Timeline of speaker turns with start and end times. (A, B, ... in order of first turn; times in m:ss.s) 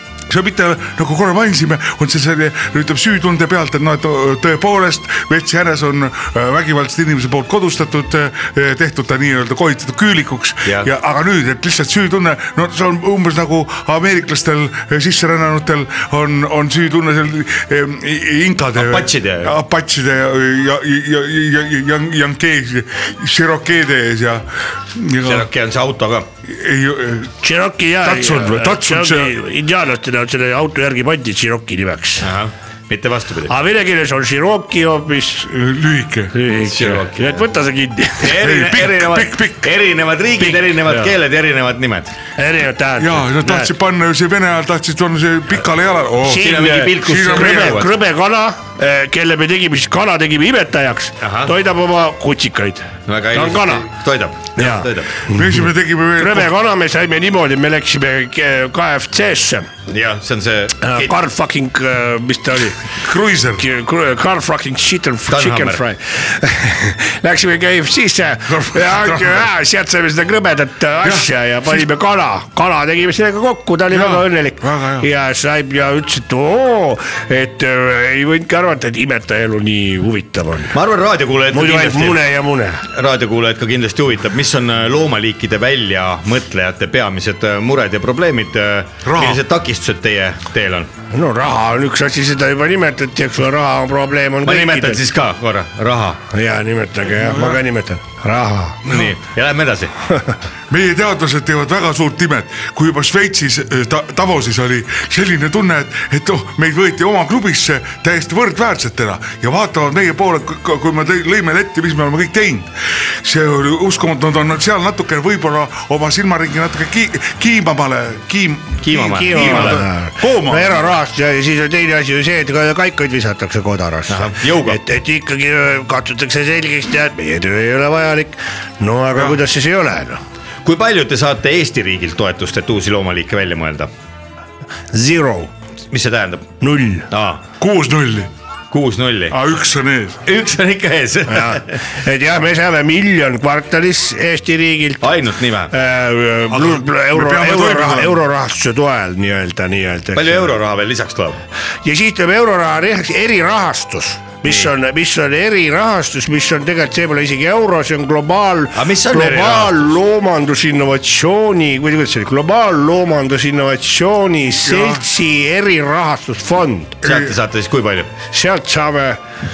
0:00.3-0:25.5 A
0:18.8-0:19.6 B
0:25.2-0:26.3 B
0:26.4-0:27.3 A
0:27.4-0:32.3 C
0:28.0-0:29.3 A
0:32.2-0:33.5 B
0:33.5-0:35.5 C
0:35.5-0:36.4 A
0:36.3-0:38.4 C
0:36.6-0:37.5 B
0:38.2-0:42.1 B
0:38.3-0:39.7 A
0:40.4-0:41.1 C
0:42.4-0:43.7 C
0:43.0-0:47.8 A
0:46.2-0:53.9 C
0:46.3-0:47.9 B
0:51.2-0:51.5 B
0:53.1-0:55.2 B
0:54.6-0:55.6 C
0:55.3-0:56.5 A
0:56.2-0:59.7 C
0:59.9-1:01.2 B
1:00.8-1:02.9 C
1:03.0-1:03.7 A
1:03.6-1:20.8 C
1:05.3-1:05.8 B
1:08.5-1:09.5 A
1:11.0-1:11.8 A
1:13.9-1:15.1 A
1:20.7-1:22.2 B
1:21.5-1:22.8 C
1:22.9-1:30.9 B
1:29.0-1:29.4 A
1:31.1-1:35.0 C
1:34.4-1:36.2 B
1:36.3-1:38.8 C
1:37.2-1:37.6 A
1:38.9-1:39.9 B
1:40.7-2:00.8 A
1:58.8-1:59.8 B
1:58.9-2:10.2 C
2:04.1-2:04.8 B
2:09.1-2:09.4 A
2:10.6-2:13.9 B
2:14.9-2:15.5 C
2:15.9-2:16.5 B
2:16.6-2:17.1 C
2:17.1-2:17.4 B
2:17.6-2:18.3 A
2:18.7-2:19.4 B
2:19.3-2:20.2 A
2:20.2-2:21.8 B
2:21.3-2:25.1 C
2:25.0-2:25.7 B
2:25.7-2:30.5 C
2:26.5-2:28.2 A
2:30.1-2:31.4 B
2:31.8-2:47.0 C
2:38.7-2:39.9 B
2:44.6-2:45.0 A
2:47.0-2:47.4 A
2:47.0-2:48.1 B
2:48.3-2:49.2 C